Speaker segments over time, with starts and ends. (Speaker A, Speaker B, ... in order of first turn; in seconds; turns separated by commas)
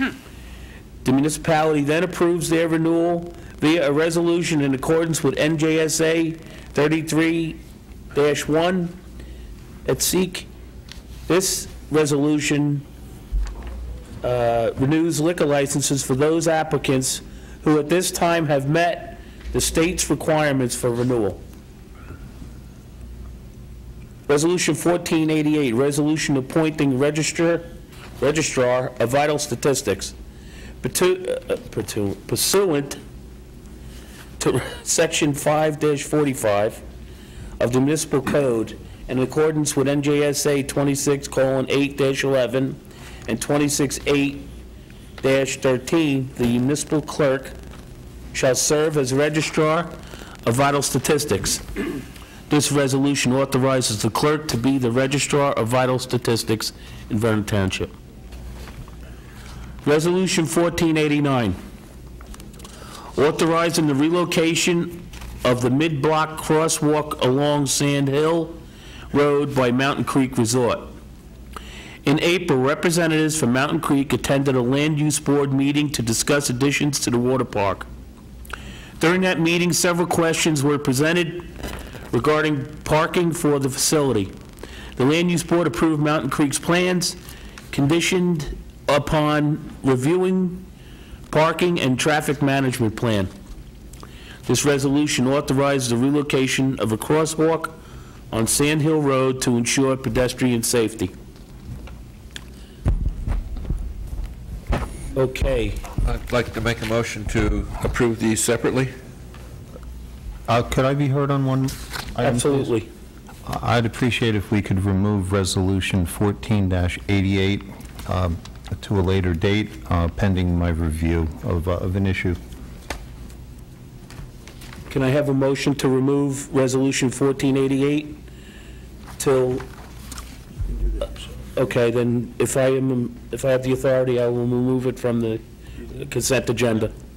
Speaker A: 1.0-7.6, Speaker A: 8.1-9.0, Speaker A: 9.8-10.5, Speaker A: 11.3-12.9, Speaker A: 14.2-21.4, Speaker A: 24.3-27.7, Speaker A: 28.2-30.2, Speaker A: 30.8-33.0, Speaker A: 34.4-36.8, Speaker A: 37.6-44.5, Speaker A: 45.2-47.5, Speaker A: 48.3-51.6, Speaker A: 52.5-57.9, Speaker A: 59.8-61.6, Speaker A: 63.1-68.6, Speaker A: 69.1-70.9, Speaker A: 72.0-77.9, Speaker A: 79.0-81.5, Speaker A: 82.1-84.3, Speaker A: 85.0-87.2, Speaker A: 87.7-90.7, Speaker A: 91.3-93.3, Speaker A: 94.5-97.8, Speaker A: 98.3-101.1, Speaker A: 105.2-105.8, Speaker B: 106.0-108.9, Speaker C: 110.5-112.7, Speaker A: 112.2-112.9, Speaker C: 113.5-122.4, Speaker A: 124.9-128.2, Speaker A: 129.2-129.7, Speaker A: 131.6-135.4, Speaker A: 135.9-136.9